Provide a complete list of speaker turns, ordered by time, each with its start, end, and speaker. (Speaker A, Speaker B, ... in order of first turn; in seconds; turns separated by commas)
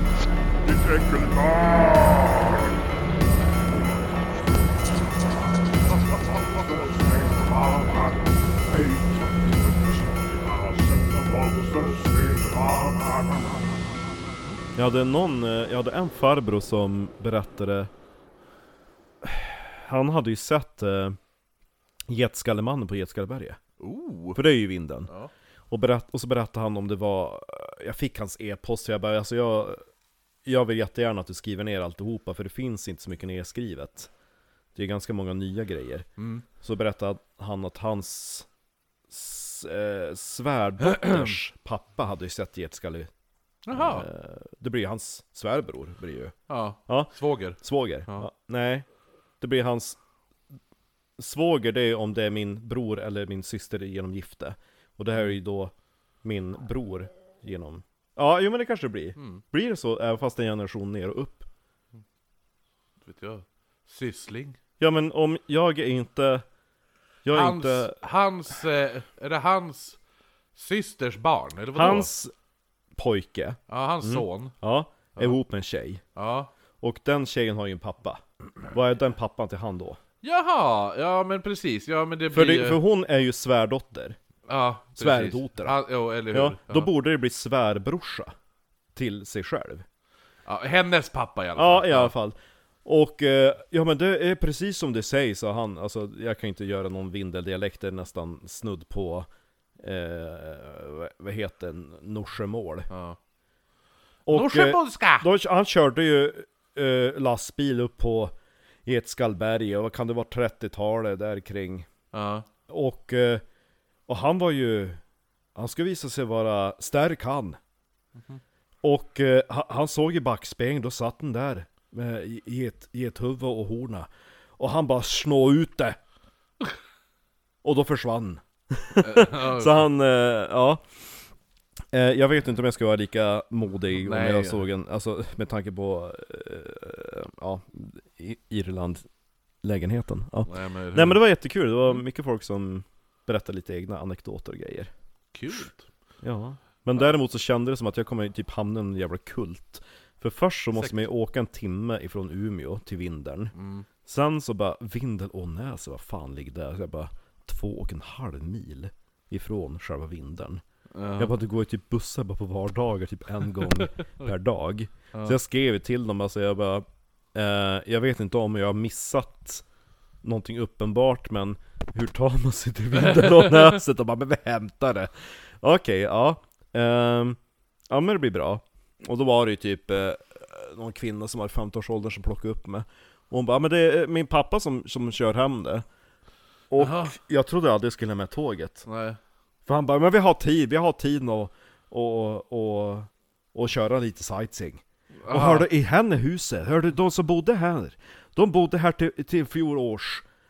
Speaker A: 0.6-2.9, Speaker A: 3.8-4.5, Speaker A: 6.1-13.7, Speaker B: 14.8-17.9, Speaker B: 19.2-21.2, Speaker B: 22.1-23.6, Speaker C: 23.8-24.4, Speaker B: 24.4-25.1, Speaker B: 25.7-29.8, Speaker B: 30.4-34.1, Speaker B: 34.8-36.1, Speaker C: 36.2-36.5, Speaker B: 36.6-38.5, Speaker B: 39.1-43.1, Speaker C: 40.8-41.4, Speaker C: 43.7-44.1, Speaker B: 43.7-46.3, Speaker C: 46.5-48.3, Speaker B: 46.9-48.9, Speaker B: 49.4-50.0, Speaker B: 51.2-61.5, Speaker C: 59.2-59.4, Speaker C: 63.0-64.6, Speaker B: 64.8-66.5, Speaker B: 67.2-68.0, Speaker C: 67.3-70.0, Speaker C: 70.5-72.1, Speaker B: 71.7-72.3, Speaker B: 73.0-76.0, Speaker C: 73.7-74.5, Speaker C: 76.2-76.5, Speaker B: 76.8-80.0, Speaker C: 80.2-82.8, Speaker B: 82.3-84.2, Speaker C: 84.5-86.9, Speaker B: 85.0-85.8, Speaker B: 86.3-88.3, Speaker B: 89.0-89.8, Speaker C: 90.5-92.1, Speaker B: 91.6-99.3, Speaker B: 99.8-102.9, Speaker C: 102.9-103.2, Speaker B: 104.3-108.3, Speaker C: 104.3-105.3, Speaker B: 108.9-111.9, Speaker C: 112.1-112.5, Speaker B: 112.7-113.4, Speaker B: 114.1-115.0, Speaker B: 115.6-117.6, Speaker B: 118.8-126.0, Speaker B: 127.6-130.8, Speaker C: 129.0-129.9, Speaker B: 131.9-139.0, Speaker C: 133.9-134.7, Speaker B: 139.6-144.9, Speaker C: 140.4-141.2, Speaker C: 145.3-145.9, Speaker B: 146.2-153.5, Speaker C: 150.8-151.1, Speaker C: 153.6-153.9, Speaker B: 154.1-160.6, Speaker C: 160.9-161.3, Speaker B: 161.2-169.7, Speaker B: 170.2-175.1, Speaker C: 173.1-173.7, Speaker B: 175.6-177.4, Speaker B: 177.9-185.8, Speaker B: 186.7-188.9, Speaker C: 186.8-187.2, Speaker C: 188.9-189.2, Speaker B: 189.7-200.2, Speaker C: 195.2-195.7